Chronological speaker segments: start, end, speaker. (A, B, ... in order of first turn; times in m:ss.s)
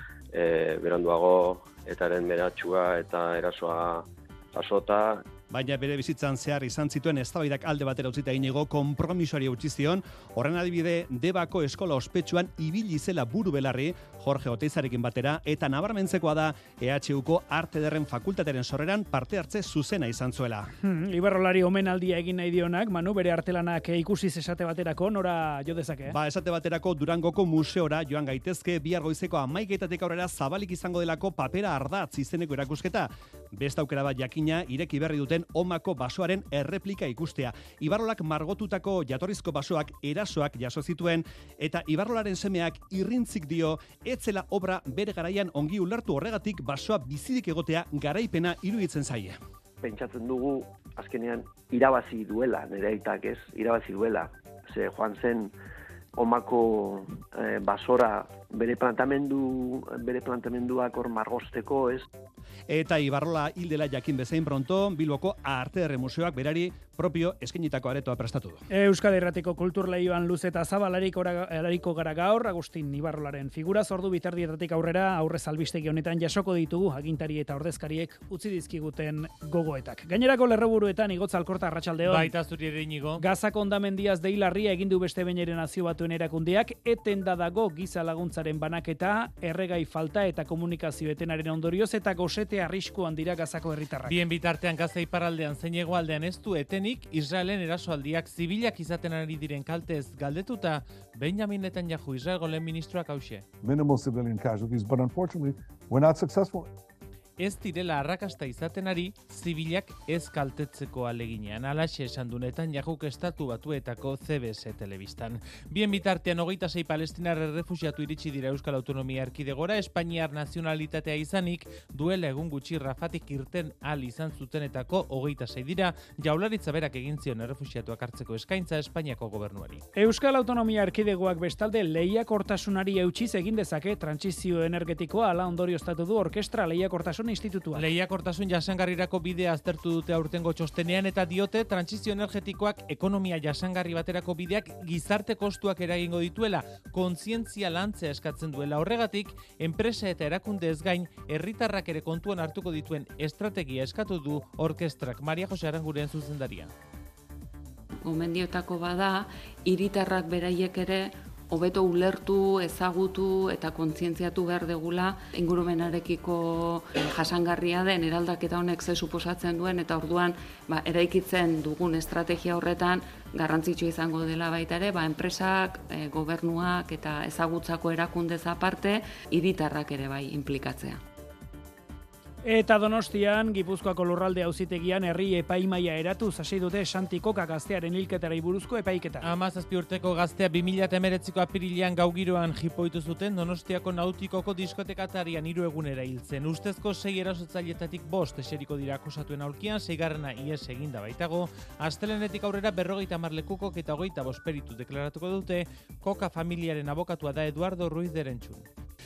0:00.3-0:05.3 A
0:05.5-0:20.7 B
0:20.8-0:26.2 C
0:26.1-0:49.4 B
0:49.8-0:55.5 D
0:56.2-1:02.1 D
1:02.7-1:08.6 B
1:08.7-1:22.3 C
1:22.1-1:23.2 E
1:23.2-1:34.1 C
1:34.1-1:43.4 E
1:43.6-1:46.7 F
1:47.4-2:09.8 E
2:10.0-2:17.8 C
2:17.8-2:36.7 E
2:38.0-3:01.0 G
3:02.4-3:09.3 C
3:09.2-3:28.7 E